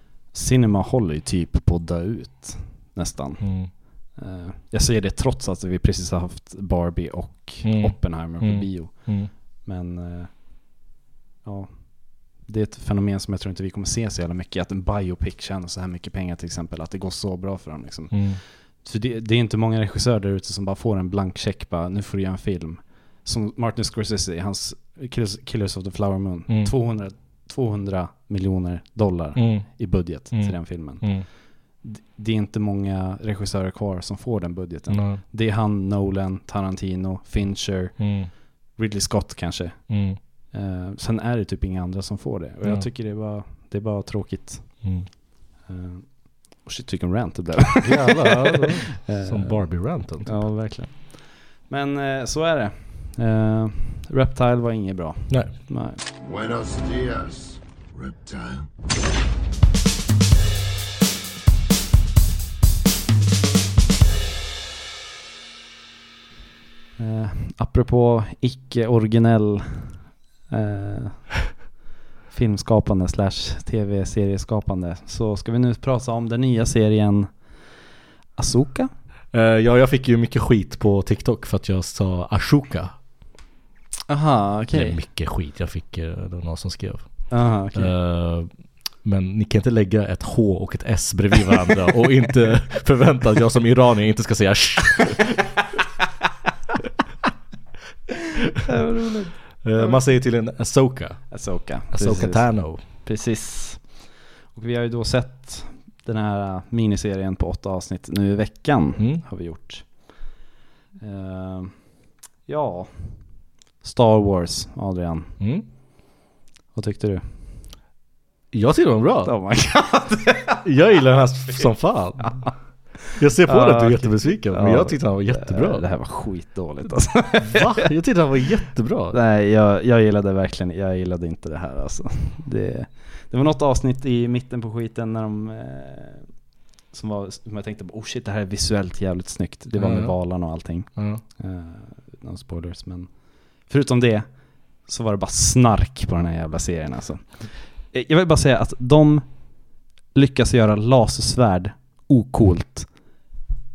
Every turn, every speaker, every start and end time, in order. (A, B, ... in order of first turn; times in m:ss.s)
0:00.3-0:10.3 A
0:03.4-0:03.7 B
0:07.6-0:09.3 B
0:11.4-0:38.2 A
0:18.1-0:18.4 B
0:26.5-0:26.7 B
0:29.4-0:31.3 B
0:34.9-0:35.2 B
0:38.0-0:38.3 B
0:38.7-0:39.9 A
0:39.9-0:40.2 B
0:40.5-0:44.8 A
0:44.8-0:45.1 B
0:45.6-0:56.0 A
0:47.8-0:50.4 B
0:56.2-0:58.7 C
1:07.0-1:11.4 A
1:12.3-1:17.3 A
1:18.4-1:18.9 A
1:19.3-1:23.0 B
1:24.1-1:25.0 A
1:24.7-1:28.5 B
1:27.3-1:27.9 A
1:29.0-1:35.5 B
1:38.6-1:40.0 A
1:39.6-1:41.3 B
1:41.3-1:43.9 A
1:41.9-1:42.8 B
1:44.5-1:50.1 A
1:49.0-1:49.2 B
1:51.0-1:51.8 A
1:52.5-1:53.2 A
1:53.8-1:55.3 A
1:55.4-1:55.7 B
1:56.7-1:57.2 A
1:58.5-1:59.3 B
1:59.2-2:00.7 A
2:00.6-2:02.5 B
2:02.2-2:02.5 A
2:03.2-2:05.8 B
2:03.4-2:07.9 A
2:07.4-2:09.2 B
2:09.1-2:16.3 A
2:16.9-2:32.9 A
2:19.8-2:21.2 B